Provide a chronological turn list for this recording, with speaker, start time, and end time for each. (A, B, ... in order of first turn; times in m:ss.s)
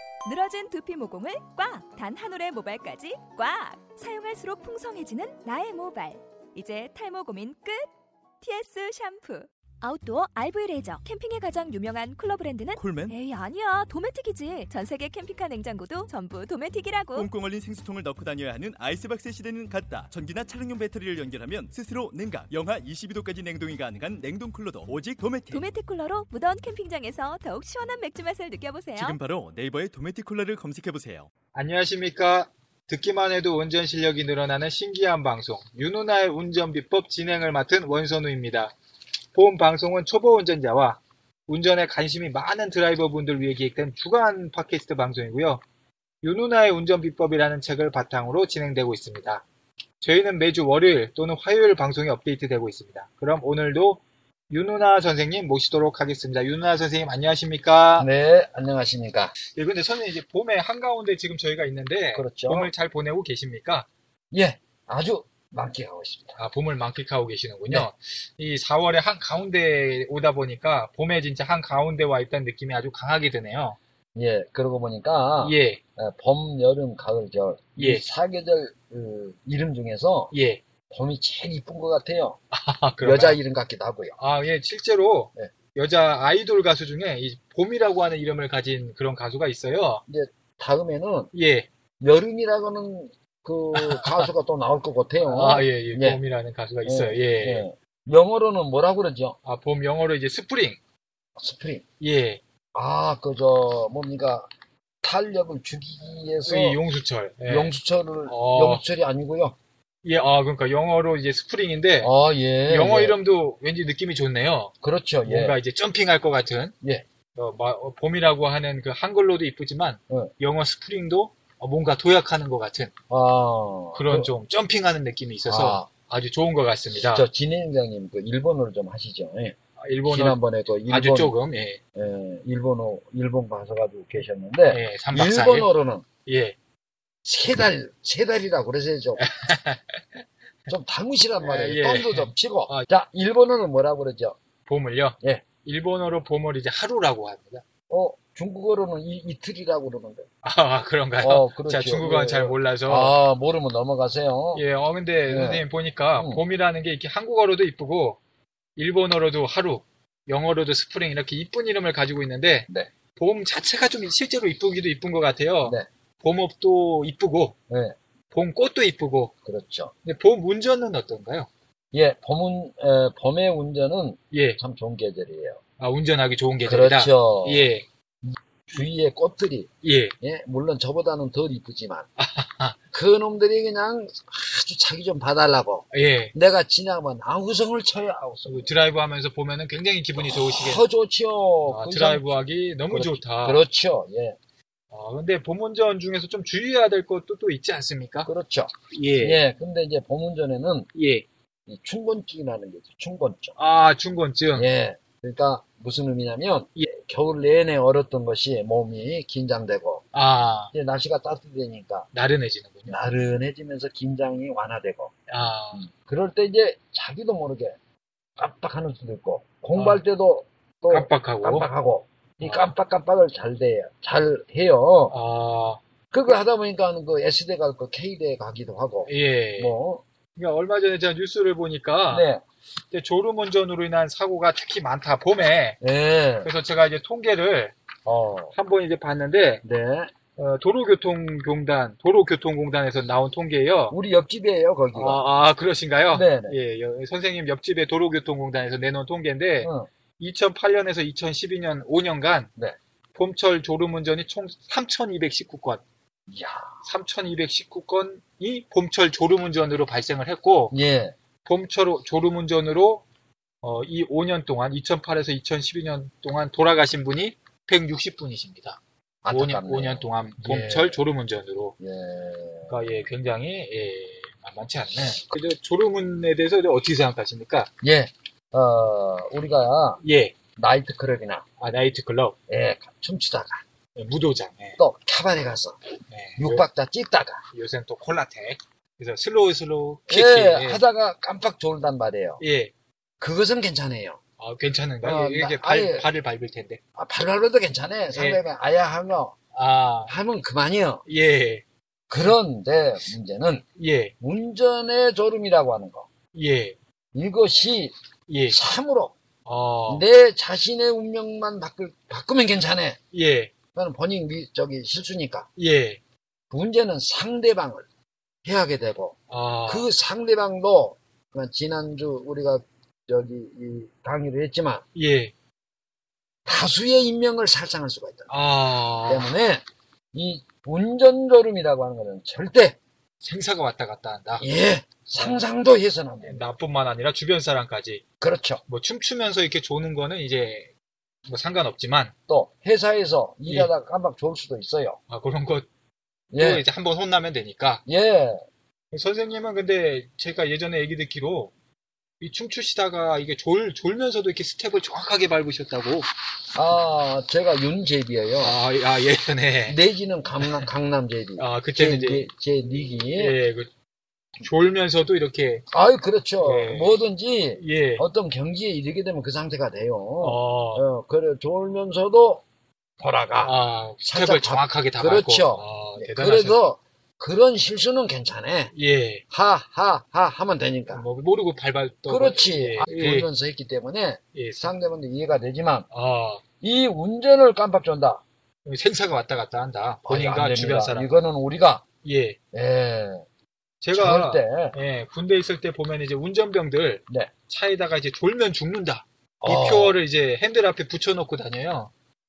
0:00.2-0:07.9 A
0:08.4-0:17.3 A
0:12.8-0:13.2 B
0:17.1-0:25.7 B
0:25.5-0:29.2 A
0:29.0-0:31.3 B
0:31.5-0:38.7 C
0:39.3-0:45.6 C
0:46.2-0:49.4 C
0:50.0-0:58.1 C
0:58.0-0:59.3 D
0:59.5-1:03.9 C
1:02.2-1:02.7 D
1:04.3-1:06.4 D
1:06.4-1:13.8 C
1:14.1-1:20.3 D
1:15.4-1:15.8 C
1:17.8-1:18.0 C
1:20.3-1:20.6 C
1:20.9-1:22.4 D
1:22.5-1:23.4 C
1:23.0-1:24.2 D
1:24.2-1:30.0 C
1:30.1-1:31.3 D
1:31.3-1:31.7 C
1:32.0-1:36.2 D
1:33.7-1:34.3 C
1:35.2-1:37.6 C
1:36.8-1:39.4 D
1:39.4-1:40.8 C
1:41.4-1:41.8 D
1:42.0-1:42.4 C
1:42.7-1:44.5 D
1:45.0-1:46.8 D
1:46.4-1:47.7 C
1:47.5-1:49.6 D
1:48.3-1:48.8 C
1:50.0-1:52.1 C
1:52.0-1:53.2 D
1:52.7-1:54.7 C
1:54.8-1:55.6 D
1:55.2-1:56.7 C
1:57.3-2:02.9 C
2:03.1-2:04.3 D
2:03.9-2:07.3 C
2:05.4-2:05.9 D
2:07.0-2:11.3 D
2:09.8-2:11.8 C
2:11.9-2:16.0 D
2:14.7-2:15.7 C
2:16.2-2:16.5 C
2:17.2-2:19.2 D
2:19.2-2:20.2 C
2:20.7-2:24.4 D
2:21.4-2:22.9 C
2:24.6-2:27.6 C
2:27.9-2:30.2 D
2:30.4-2:33.1 C
2:31.2-2:34.6 D
2:34.5-2:38.2 C
2:35.3-2:35.6 D
2:38.8-2:47.6 C
2:47.7-2:48.0 D
2:48.3-2:49.3 C
2:49.4-2:49.9 D
2:50.0-2:51.5 C
2:51.9-2:55.6 D
2:54.3-2:54.6 C
2:55.8-2:57.8 C
2:56.6-2:57.7 D
2:58.2-2:59.7 D
2:59.8-3:00.1 C
3:00.2-3:02.1 D
3:02.2-3:02.8 C
3:02.9-3:08.7 D
3:05.9-3:06.3 C
3:08.4-3:10.8 C
3:10.2-3:12.3 D
3:11.7-3:13.6 C
3:12.9-3:14.4 D
3:14.9-3:18.3 C
3:18.3-3:20.9 D
3:18.9-3:19.4 C
3:20.9-3:21.2 C
3:21.7-3:23.6 D
3:23.6-3:24.7 C
3:24.6-3:30.0 D
3:30.1-3:30.7 C
3:30.7-3:32.1 D
3:32.1-3:33.0 C
3:32.9-3:35.1 D
3:35.3-3:35.9 C
3:35.9-3:37.8 D
3:38.4-3:45.1 D
3:39.7-3:40.0 C
3:40.9-3:41.7 C
3:42.4-3:42.7 C
3:45.1-3:45.8 C
3:46.1-3:50.0 D
3:49.1-3:49.8 C
3:50.4-3:52.2 C
3:52.1-3:52.4 D
3:52.9-3:55.8 C
3:55.8-3:56.5 D
3:56.4-3:57.7 C
3:58.0-3:58.5 D
3:58.5-3:59.6 C
3:59.6-4:00.1 D
4:00.4-4:04.0 C
4:03.9-4:05.2 D
4:04.9-4:12.5 C
4:06.1-4:06.6 D
4:09.6-4:09.9 D
4:13.1-4:15.8 C
4:16.3-4:16.7 D
4:16.8-4:20.7 C
4:20.7-4:21.1 D
4:21.4-4:23.0 C
4:23.6-4:31.7 C
4:29.2-4:31.0 D
4:31.8-4:32.8 D
4:32.7-4:37.7 C
4:37.8-4:40.0 D
4:40.0-4:40.4 C
4:40.6-4:41.4 D
4:41.6-4:42.4 C
4:42.5-4:43.6 D
4:44.0-4:44.8 C
4:44.8-4:45.8 D
4:46.1-4:46.6 C
4:46.4-4:47.4 D
4:47.5-4:50.8 C
4:50.1-4:52.4 D
4:52.4-4:52.7 C
4:53.2-4:54.2 D
4:54.4-4:56.8 C
4:55.0-4:56.1 D
4:57.0-4:59.3 D
4:58.1-4:58.4 C
4:59.5-5:00.1 C
5:00.1-5:01.0 D
5:01.1-5:01.6 C
5:02.1-5:03.6 D
5:03.8-5:04.1 C
5:04.2-5:06.1 D
5:06.3-5:06.8 C
5:07.1-5:07.9 D
5:08.3-5:08.6 C
5:08.5-5:09.2 D
5:09.4-5:10.0 C
5:09.9-5:13.0 D
5:13.1-5:13.5 C
5:13.7-5:15.5 D
5:15.6-5:16.0 C
5:16.5-5:17.8 D
5:18.4-5:19.2 D
5:19.3-5:19.9 C
5:19.7-5:24.8 D
5:24.9-5:25.3 C
5:26.4-5:28.3 D
5:28.3-5:29.3 C
5:29.0-5:32.8 D
5:33.2-5:34.5 C
5:34.4-5:36.4 D
5:36.2-5:38.0 C
5:38.2-5:38.6 D
5:38.7-5:40.7 C
5:41.3-5:42.1 C
5:42.3-5:45.0 D
5:45.1-5:45.7 C
5:46.3-5:46.6 D
5:46.4-5:47.8 C
5:47.9-5:48.4 D
5:48.9-5:51.5 C
5:52.2-5:56.1 C
5:56.5-5:58.6 D
5:58.4-5:59.8 C
5:59.7-6:03.4 D
6:00.4-6:00.6 C
6:01.4-6:02.2 C
6:03.1-6:03.7 C
6:04.4-6:05.6 C
6:05.7-6:12.4 D
6:06.4-6:07.0 C
6:07.6-6:08.0 C
6:10.2-6:10.8 C
6:13.0-6:18.7 D
6:13.4-6:16.6 C
6:18.7-6:19.2 C
6:19.3-6:21.0 D
6:20.9-6:23.3 C
6:22.1-6:25.9 D
6:24.3-6:24.7 C
6:25.9-6:26.4 C
6:26.6-6:28.2 D
6:28.6-6:31.1 C
6:30.0-6:31.8 D
6:32.0-6:32.4 C
6:32.5-6:33.2 D
6:33.8-6:41.9 C
6:33.9-6:34.8 D
6:39.4-6:40.0 D